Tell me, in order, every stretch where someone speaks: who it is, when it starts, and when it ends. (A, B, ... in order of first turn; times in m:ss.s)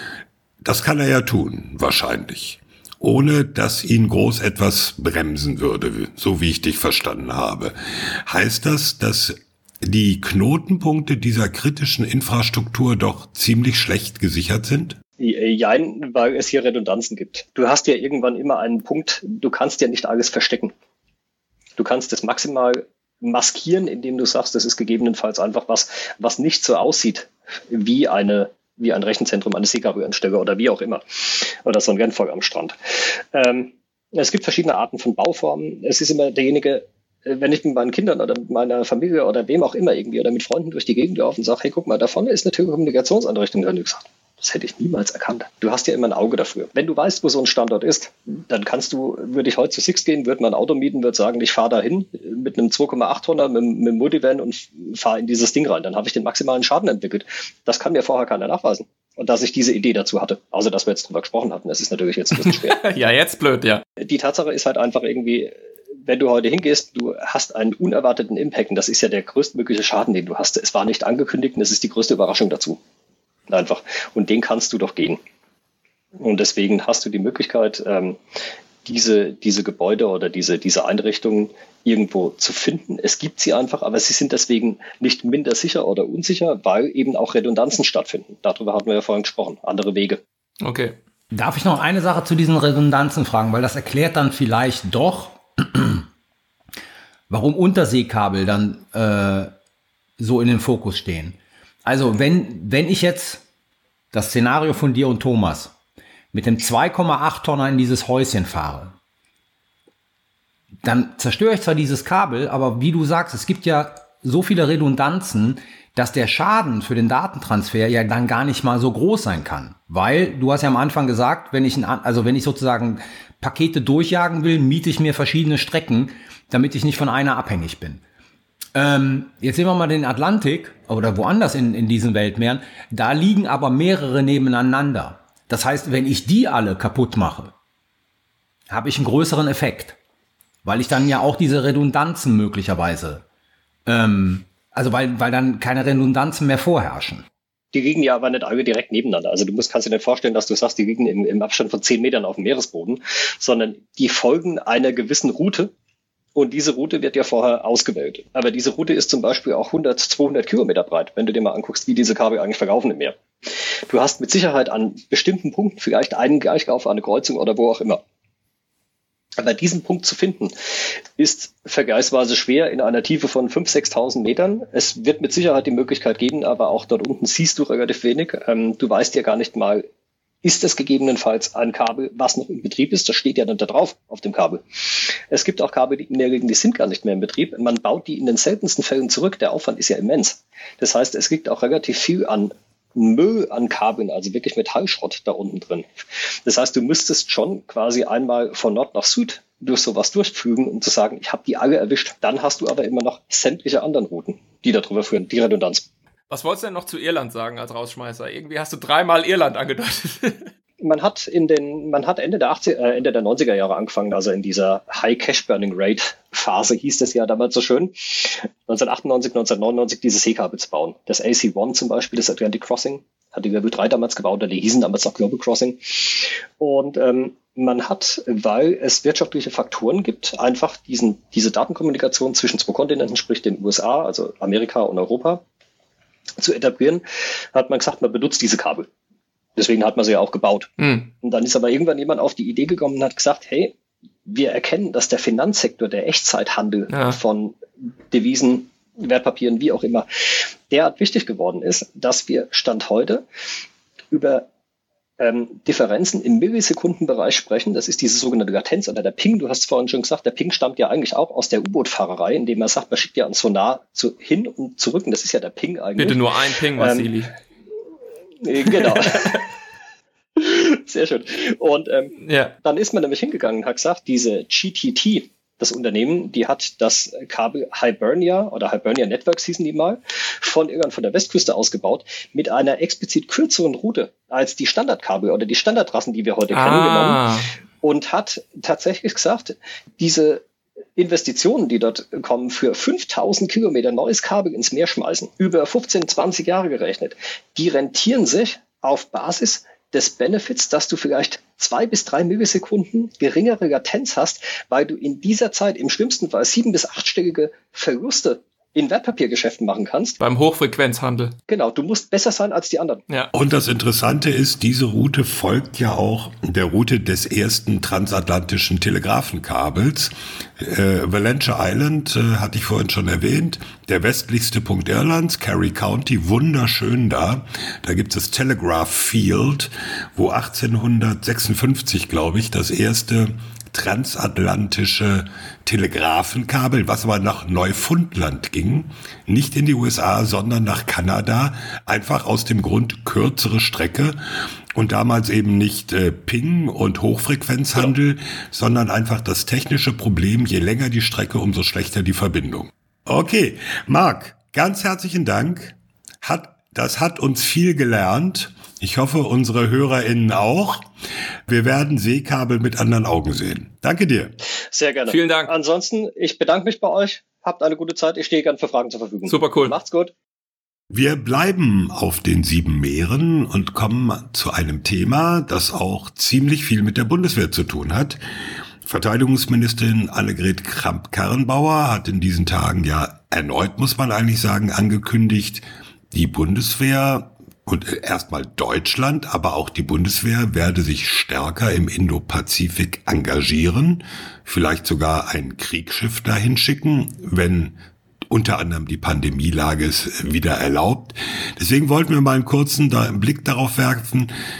0:00.6-0:15.0 A
0:15.2-0:20.7 B
0:21.8-1:02.8 B
1:02.4-1:03.8 C
1:04.0-1:12.8 B
1:13.5-1:15.2 B
1:16.2-1:18.2 B
1:18.8-1:30.2 B
1:30.6-1:31.0 C
1:31.3-1:36.0 D
1:37.3-1:39.5 D
1:40.2-1:43.4 D
1:44.1-1:45.7 D
1:46.3-1:48.9 D
1:50.8-2:08.0 D
2:08.7-2:17.5 D
2:18.7-2:20.0 D
2:20.6-2:23.2 D
2:23.8-2:27.2 D
2:27.7-2:35.7 B
2:36.3-2:48.0 B
2:49.4-2:50.5 B
2:51.2-2:59.8 B
3:00.4-3:25.8 B
3:26.3-3:30.5 C
3:30.8-3:55.4 B
3:56.4-3:58.9 B
3:59.6-4:03.7 B
4:00.8-4:01.1 C
4:04.2-4:13.2 B
4:06.9-4:07.2 C
4:14.1-4:14.5 B
4:15.2-4:27.1 B
4:26.0-4:27.3 C
4:28.4-4:29.5 B
4:28.8-4:29.3 C
4:30.4-4:47.2 B
4:32.2-4:32.5 C
4:46.5-4:47.5 C
4:47.8-4:50.4 B
4:51.0-5:10.2 B
5:10.2-5:11.3 C
5:11.5-5:13.0 B
5:13.3-5:44.2 A
5:44.7-6:00.8 A
6:01.5-6:04.3 A
6:04.7-6:10.1 B
6:05.1-6:05.5 C
6:09.3-6:09.7 C
6:10.9-6:18.2 A
6:18.8-6:37.8 A
6:38.3-6:44.3 A